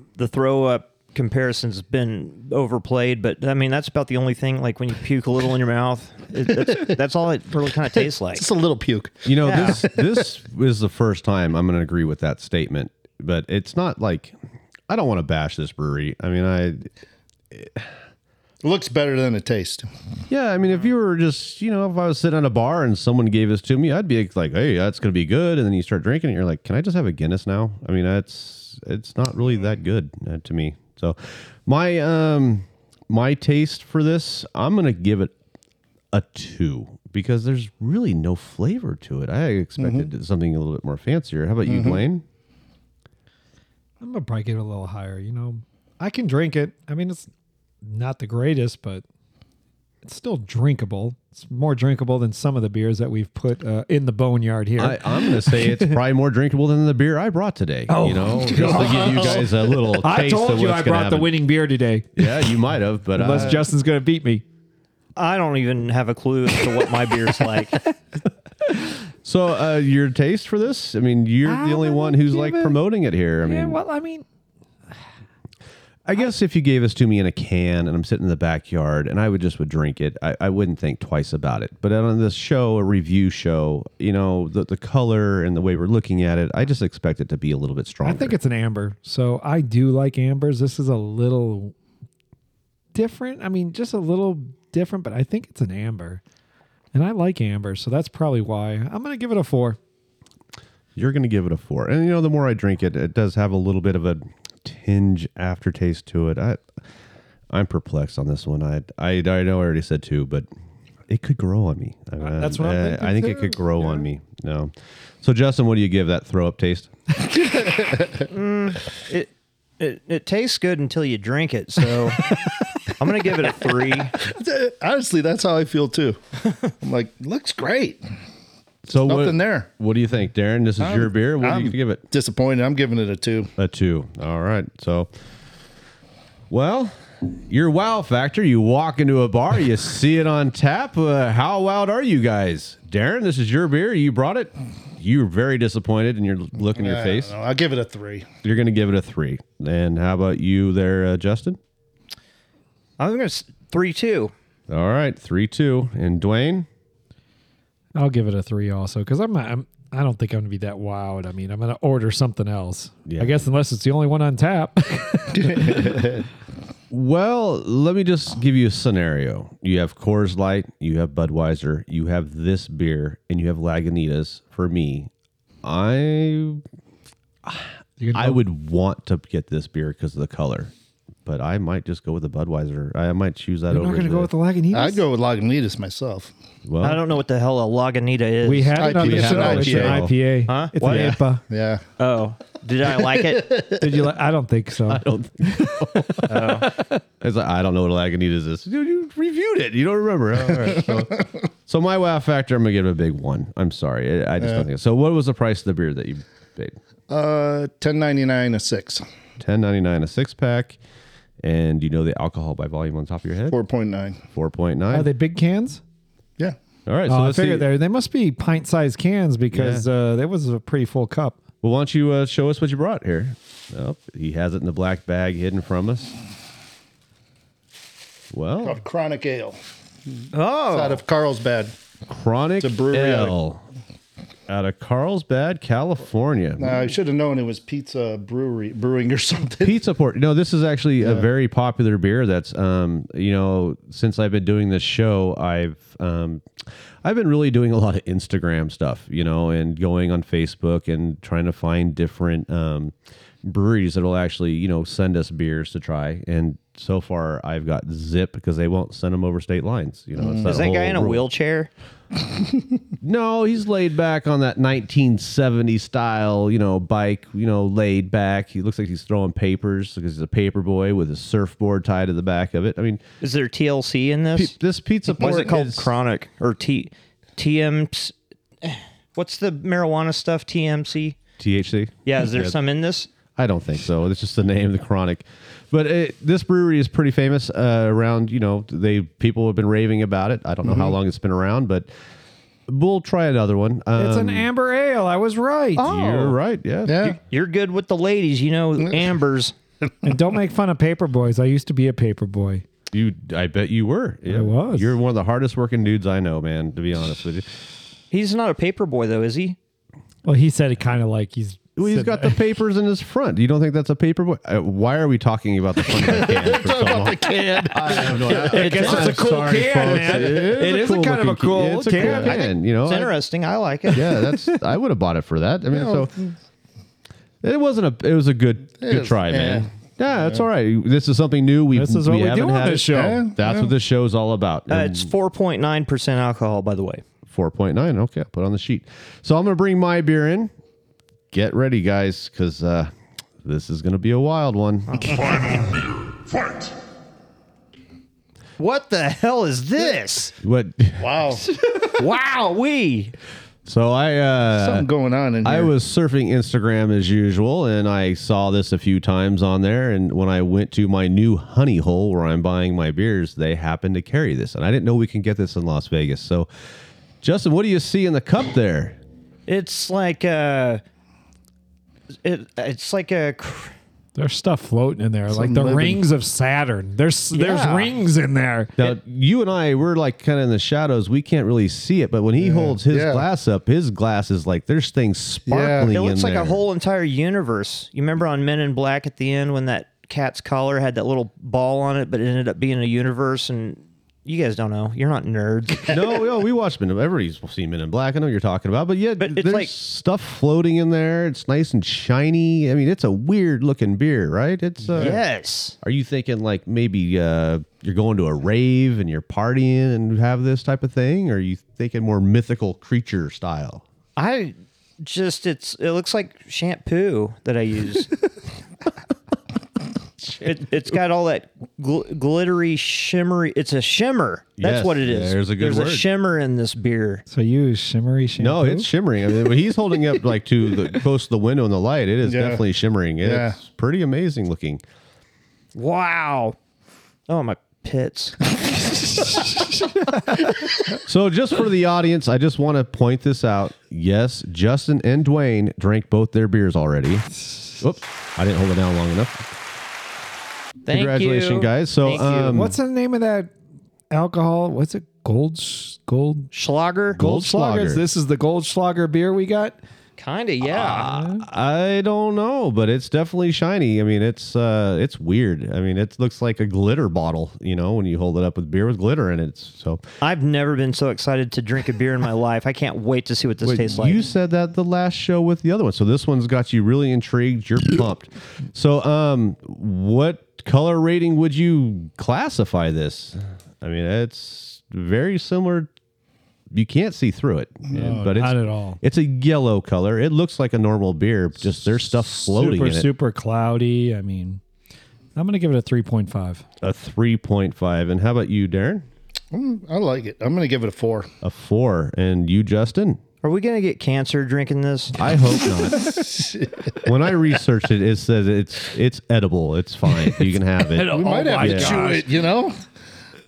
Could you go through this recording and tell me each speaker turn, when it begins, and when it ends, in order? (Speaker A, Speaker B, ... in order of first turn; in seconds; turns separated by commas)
Speaker A: 0.2-8.5, Speaker B: 8.3-10.2, Speaker C: 9.2-14.4, Speaker A: 9.4-9.8, Speaker C: 14.9-16.9, Speaker C: 17.5-17.9, Speaker B: 18.6-19.9, Speaker C: 20.3-35.3, Speaker C: 36.1-42.2, Speaker B: 39.8-40.1, Speaker B: 41.6-42.0, Speaker D: 44.0-47.3, Speaker D: 47.8-49.0, Speaker D: 50.0-56.0, Speaker C: 54.8-61.4, Speaker D: 57.9-62.5, Speaker C: 62.2-63.7, Speaker D: 63.1-64.4, Speaker A: 65.2-67.8, Speaker C: 69.2-73.8, Speaker D: 71.4-72.8, Speaker D: 73.4-74.2, Speaker C: 76.0-88.3, Speaker D: 88.0-91.7, Speaker D: 92.9-96.2, Speaker D: 96.9-99.8, Speaker C: 101.0-106.6, Speaker C: 107.5-110.5, Speaker C: 111.1-116.9, Speaker D: 112.2-114.0, Speaker B: 117.3-118.2, Speaker A: 118.3-122.4, Speaker A: 123.0-124.2, Speaker B: 124.2-126.2, Speaker B: 126.8-128.0, Speaker B: 128.9-129.7, Speaker C: 128.9-132.0, Speaker B: 130.8-133.5, Speaker C: 133.6-135.1, Speaker C: 136.5-147.3, Speaker B: 146.7-148.3, Speaker C: 148.4-151.6, Speaker A: 153.0-154.3, Speaker C: 154.7-156.7, Speaker D: 157.9-166.0, Speaker C: 163.1-163.4, Speaker B: 165.3-166.2, Speaker C: 166.9-175.1, Speaker C: 175.6-176.6, Speaker C: 177.4-180.7, Speaker D: 178.0-178.4, Speaker C: 181.2-184.3, Speaker D: 183.7-185.0, Speaker B: 184.7-186.3, Speaker C: 186.7-187.0, Speaker A: 186.8-188.8, Speaker D: 188.4-191.4, Speaker B: 188.8-190.1, Speaker C: 188.8-190.2, Speaker A: 190.5-191.2, Speaker C: 190.8-191.2, Speaker B: 191.5-191.8, Speaker A: 192.0-193.6, Speaker B: 193.0-193.8, Speaker D: 193.8-196.8, Speaker C: 194.9-196.6, Speaker A: 196.3-196.7, Speaker C: 197.2-206.8, Speaker B: 200.7-201.0, Speaker B: 204.4-204.7, Speaker B: 207.1-209.0, Speaker C: 209.4-210.8, Speaker C: 211.4-213.6, Speaker B: 213.5-214.2, Speaker C: 214.3-215.1, Speaker D: 214.9-215.8, Speaker C: 216.9-217.7, Speaker D: 217.1-221.4, Speaker C: 219.5-219.9, Speaker C: 221.6-226.2, Speaker C: 228.3-228.8, Speaker B: 228.6-229.6, Speaker B: 230.2-231.8, Speaker A: 230.3-231.0, Speaker C: 232.1-233.6, Speaker B: 232.6-233.3, Speaker C: 234.5-236.8, Speaker B: 236.6-239.8, Speaker C: 239.6-246.4, Speaker B: 241.0-241.3, Speaker C: 247.0-261.2, Speaker B: 260.2-260.5, Speaker A: 260.4-261.7, Speaker C: 263.0-273.0, Speaker A: 273.2-274.5, Speaker C: 274.4-275.9, Speaker A: 275.2-281.2, Speaker C: 281.4-282.6, Speaker A: 282.1-283.1, Speaker C: 283.4-291.9, Speaker B: 290.6-290.9, Speaker C: 292.7-294.5, Speaker D: 294.0-295.8, Speaker A: 295.8-296.4, Speaker C: 295.8-297.2, Speaker B: 296.9-297.2, Speaker A: 297.0-299.5, Speaker D: 300.0-302.6, Speaker C: 302.9-307.5, Speaker D: 304.3-304.9, Speaker A: 308.1-309.6, Speaker D: 310.2-312.4, Speaker C: 311.8-323.1, Speaker B: 315.9-318.8, Speaker D: 318.5-322.4, Speaker A: 318.5-319.2, Speaker B: 319.8-320.6, Speaker A: 322.0-324.2, Speaker C: 323.9-326.1, Speaker B: 325.7-326.3, Speaker C: 327.4-335.1, Speaker B: 328.8-330.4, Speaker D: 331.7-333.2, Speaker B: 332.8-333.7, Speaker A: 334.7-337.0, Speaker C: 337.3-340.5, Speaker C: 341.3-342.9, Speaker C: 343.4-345.2, Speaker A: 344.9-345.8, Speaker B: 345.2-345.7, Speaker A: 348.6-350.3, Speaker C: 350.4-351.4, Speaker B: 351.0-351.4, Speaker A: 351.9-353.1, Speaker C: 353.6-354.9, Speaker B: 354.5-355.7, Speaker C: 355.4-366.5, Speaker C: 367.2-369.0, Speaker A: 369.5-370.8, Speaker A: 372.2-373.7, Speaker D: 374.2-378.7, Speaker B: 375.3-376.0, Speaker A: 377.3-377.9, Speaker C: 378.8-386.6, Speaker B: 382.4-383.2, Speaker B: 385.5-385.9, Speaker A: 385.9-396.2, Speaker C: 395.9-405.2, Speaker A: 399.2-399.7, Speaker A: 405.0-405.8, Speaker C: 405.8-413.8, Speaker A: 414.2-418.1, Speaker A: 420.3-427.2, Speaker C: 424.6-426.1, Speaker D: 427.3-428.9, Speaker C: 428.4-434.8, Speaker B: 432.2-432.6, Speaker B: 433.2-433.6, Speaker A: 435.8-436.6, Speaker A: 437.3-439.6, Speaker C: 441.0-449.5, Speaker A: 450.9-452.6, Speaker C: 450.9-452.8, Speaker D: 452.5-453.5, Speaker D: 454.1-456.5, Speaker A: 456.5-457.2, Speaker C: 457.1-458.0, Speaker D: 457.2-459.8, Speaker A: 460.2-461.1, Speaker C: 460.6-470.1, Speaker D: 461.1-461.5, Speaker A: 470.2-474.2, Speaker C: 473.6-485.9, Speaker C: 486.7-493.1, Speaker B: 487.9-488.3, Speaker D: 488.2-489.0, Speaker D: 492.3-494.6, Speaker D: 495.4-496.6, Speaker C: 496.8-499.1, Speaker B: 499.5-501.3, Speaker C: 501.4-503.2, Speaker A: 503.4-505.1, Speaker C: 505.1-506.1, Speaker B: 506.0-507.0, Speaker C: 507.0-512.1, Speaker D: 510.4-512.3, Speaker B: 511.1-512.7